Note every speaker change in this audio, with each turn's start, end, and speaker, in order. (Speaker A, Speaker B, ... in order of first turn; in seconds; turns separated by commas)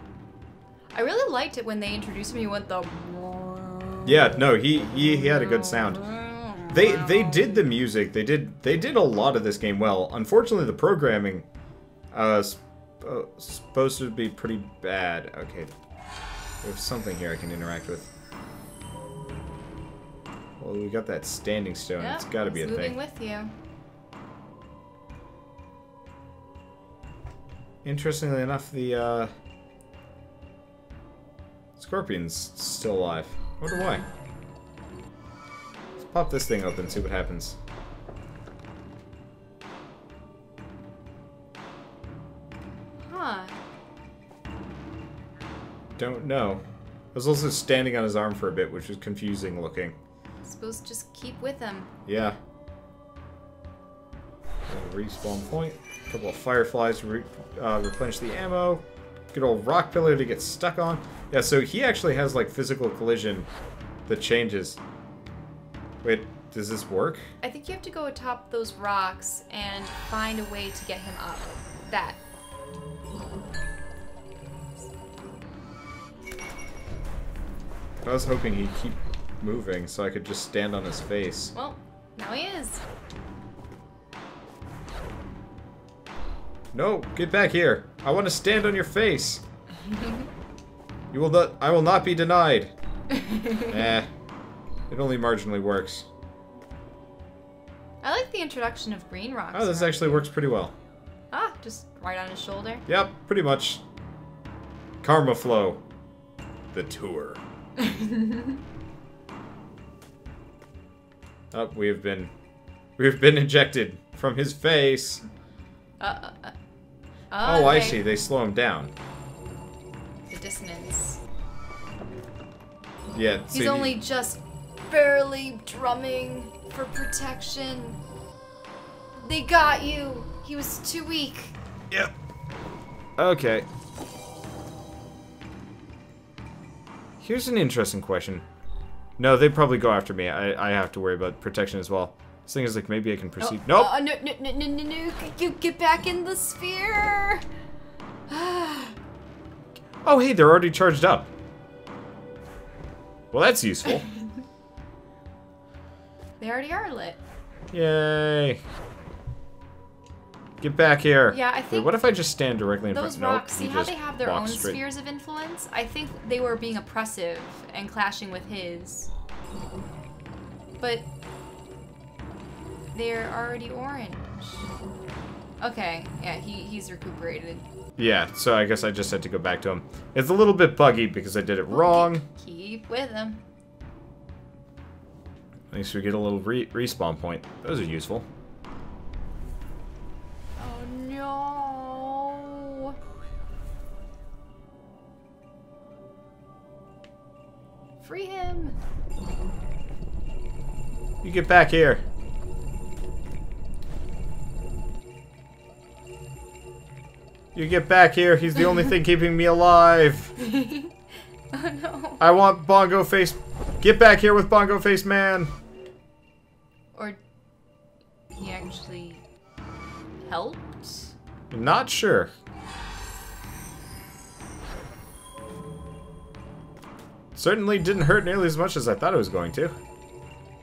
Speaker A: 0.9-7.7, Speaker B: 4.0-6.1, Speaker B: 6.7-11.5, Speaker B: 12.1-15.7, Speaker B: 16.6-18.1, Speaker B: 20.6-23.0, Speaker A: 22.0-23.6, Speaker B: 27.8-29.3, Speaker B: 31.8-34.0, Speaker B: 36.0-37.6, Speaker A: 43.0-43.6, Speaker B: 46.0-50.0, Speaker A: 50.4-51.9, Speaker B: 52.1-52.4, Speaker B: 54.7-63.5, Speaker B: 64.1-64.8, Speaker B: 66.0-67.3, Speaker A: 67.4-72.2, Speaker B: 78.0-81.5, Speaker A: 81.5-82.8, Speaker B: 86.7-89.4, Speaker A: 89.8-90.3, Speaker B: 91.1-92.7, Speaker A: 93.1-93.8, Speaker B: 93.7-94.1, Speaker B: 94.9-96.1, Speaker A: 98.0-100.3, Speaker B: 99.5-100.8, Speaker A: 101.3-102.9, Speaker B: 102.9-103.8, Speaker B: 105.0-105.8, Speaker B: 106.7-107.4, Speaker A: 107.8-108.6, Speaker B: 111.5-112.3, Speaker B: 113.0-115.3, Speaker A: 116.0-116.5, Speaker A: 117.3-118.0, Speaker B: 117.4-118.9, Speaker A: 120.3-121.2, Speaker B: 123.1-124.0, Speaker A: 123.5-128.0, Speaker A: 129.2-131.6, Speaker B: 133.2-133.7, Speaker B: 137.2-138.4, Speaker B: 139.2-144.0, Speaker A: 143.4-147.4, Speaker A: 148.3-149.0, Speaker B: 150.0-151.3, Speaker B: 153.3-154.1, Speaker A: 156.4-157.2, Speaker B: 157.7-158.6, Speaker B: 160.6-164.8, Speaker A: 161.3-162.2, Speaker A: 162.9-169.1, Speaker A: 170.8-171.1, Speaker A: 172.9-174.7, Speaker A: 175.6-177.7, Speaker B: 178.0-182.2, Speaker A: 181.7-183.4, Speaker B: 185.7-188.3, Speaker A: 190.6-193.0, Speaker A: 198.0-198.8, Speaker B: 201.2-202.0, Speaker B: 207.5-210.3, Speaker A: 210.4-210.9, Speaker A: 211.5-212.2, Speaker B: 212.2-215.5, Speaker A: 216.9-217.2, Speaker A: 218.3-219.2, Speaker A: 220.2-221.1, Speaker B: 221.5-222.3, Speaker B: 227.3-229.8